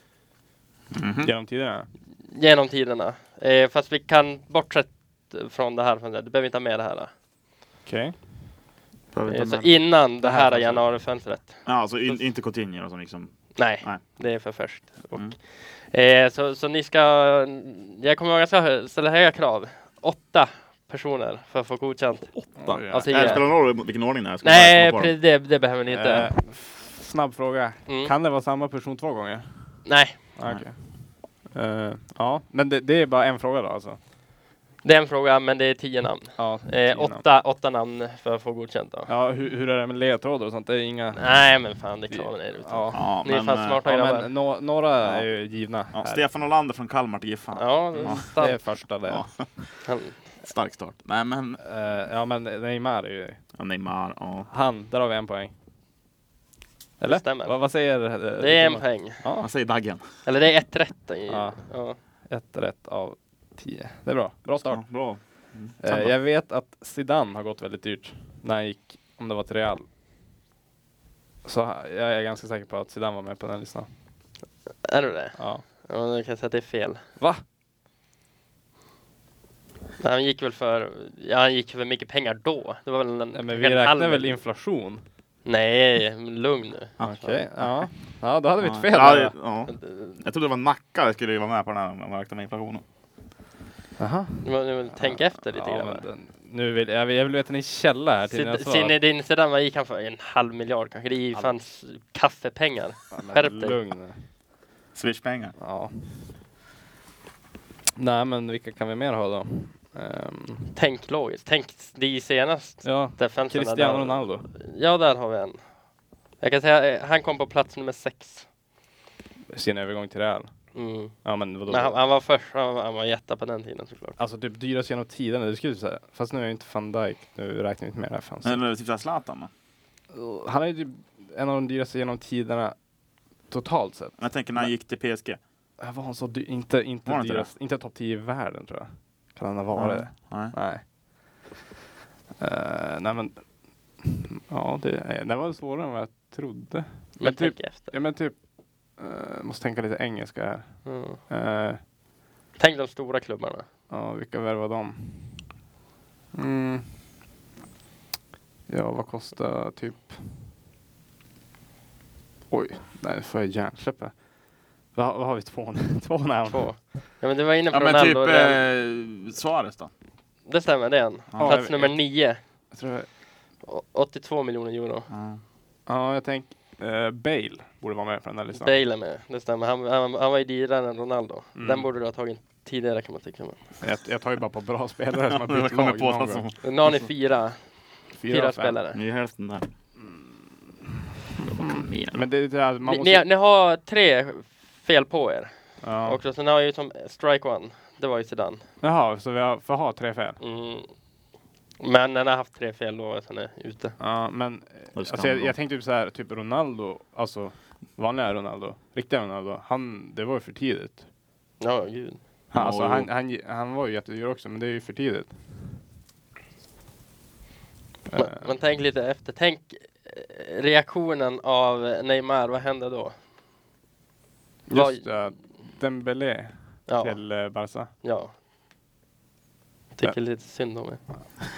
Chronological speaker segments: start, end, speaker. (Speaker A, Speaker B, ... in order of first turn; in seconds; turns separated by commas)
Speaker A: 0.9-1.3, Speaker B: 1.2-1.9, Speaker C: 2.3-7.1, Speaker B: 7.8-8.1, Speaker A: 9.1-9.7, Speaker C: 9.3-11.6, Speaker B: 10.2-10.8, Speaker A: 11.6-14.0, Speaker C: 13.6-23.6, Speaker A: 22.3-25.1, Speaker B: 22.6-23.4, Speaker C: 24.4-26.3, Speaker B: 25.9-29.8, Speaker C: 27.9-28.1, Speaker C: 29.9-30.2, Speaker B: 30.3-34.0, Speaker C: 34.8-39.1, Speaker B: 36.4-37.2, Speaker B: 39.1-41.4, Speaker C: 41.1-44.3, Speaker B: 42.1-43.1, Speaker A: 42.9-43.8, Speaker B: 43.8-46.2, Speaker A: 45.9-48.2, Speaker C: 47.5-48.6, Speaker B: 48.0-49.3, Speaker A: 49.1-49.8, Speaker C: 49.9-50.2, Speaker A: 50.4-51.6, Speaker B: 51.6-53.4, Speaker A: 53.5-54.5, Speaker B: 54.5-55.5, Speaker B: 57.0-59.5, Speaker C: 57.0-57.6, Speaker C: 58.4-59.2, Speaker A: 59.4-60.0, Speaker C: 60.2-62.0, Speaker B: 61.3-64.9, Speaker A: 64.7-66.1, Speaker B: 65.8-69.8, Speaker B: 71.4-73.9, Speaker C: 74.8-77.0, Speaker B: 75.4-75.6, Speaker C: 80.0-84.4, Speaker B: 83.3-85.0, Speaker C: 85.4-87.4, Speaker B: 87.0-89.3, Speaker A: 88.6-92.8, Speaker C: 89.7-90.2, Speaker B: 94.0-98.9, Speaker C: 94.4-96.0, Speaker C: 98.3-103.8, Speaker B: 103.1-104.2, Speaker A: 104.9-105.5, Speaker B: 105.6-106.1, Speaker B: 108.0-110.7, Speaker C: 110.7-115.6, Speaker B: 112.8-114.5, Speaker C: 116.4-118.5, Speaker B: 119.5-120.5, Speaker C: 120.7-124.2, Speaker B: 121.2-122.0, Speaker B: 124.2-128.6, Speaker A: 128.4-129.5, Speaker B: 130.1-132.8, Speaker B: 133.5-134.7, Speaker A: 134.2-135.4, Speaker B: 135.8-140.8, Speaker A: 137.1-137.5, Speaker A: 139.7-140.5, Speaker B: 142.4-143.4, Speaker B: 144.0-148.3, Speaker C: 147.2-147.9, Speaker B: 148.9-151.8, Speaker C: 150.8-151.2, Speaker C: 152.6-153.7, Speaker B: 153.9-155.5, Speaker B: 156.3-156.9, Speaker B: 158.7-160.5, Speaker B: 162.5-164.1, Speaker B: 164.9-166.7, Speaker C: 166.5-168.6, Speaker A: 167.7-169.9, Speaker C: 170.4-172.4, Speaker B: 171.4-172.0, Speaker B: 172.7-173.1, Speaker C: 173.6-175.1, Speaker A: 175.1-175.4, Speaker B: 175.9-178.7, Speaker C: 178.5-183.6, Speaker B: 181.5-181.9, Speaker B: 183.8-186.4, Speaker A: 185.2-186.6, Speaker C: 186.6-187.6, Speaker B: 188.1-188.8, Speaker C: 188.3-189.0, Speaker A: 188.9-189.7, Speaker B: 190.0-193.2, Speaker A: 191.4-192.2, Speaker C: 192.8-198.7, Speaker B: 195.8-196.2, Speaker B: 198.8-200.4, Speaker C: 200.4-200.9, Speaker C: 201.8-204.0, Speaker B: 204.0-211.1, Speaker A: 204.9-205.5, Speaker C: 211.6-212.2, Speaker A: 212.5-213.1, Speaker B: 212.5-215.4, Speaker B: 218.1-218.4, Speaker C: 218.1-223.2, Speaker B: 224.7-227.9, Speaker C: 224.7-225.1, Speaker C: 226.9-227.2, Speaker C: 228.0-228.3, Speaker C: 229.9-231.0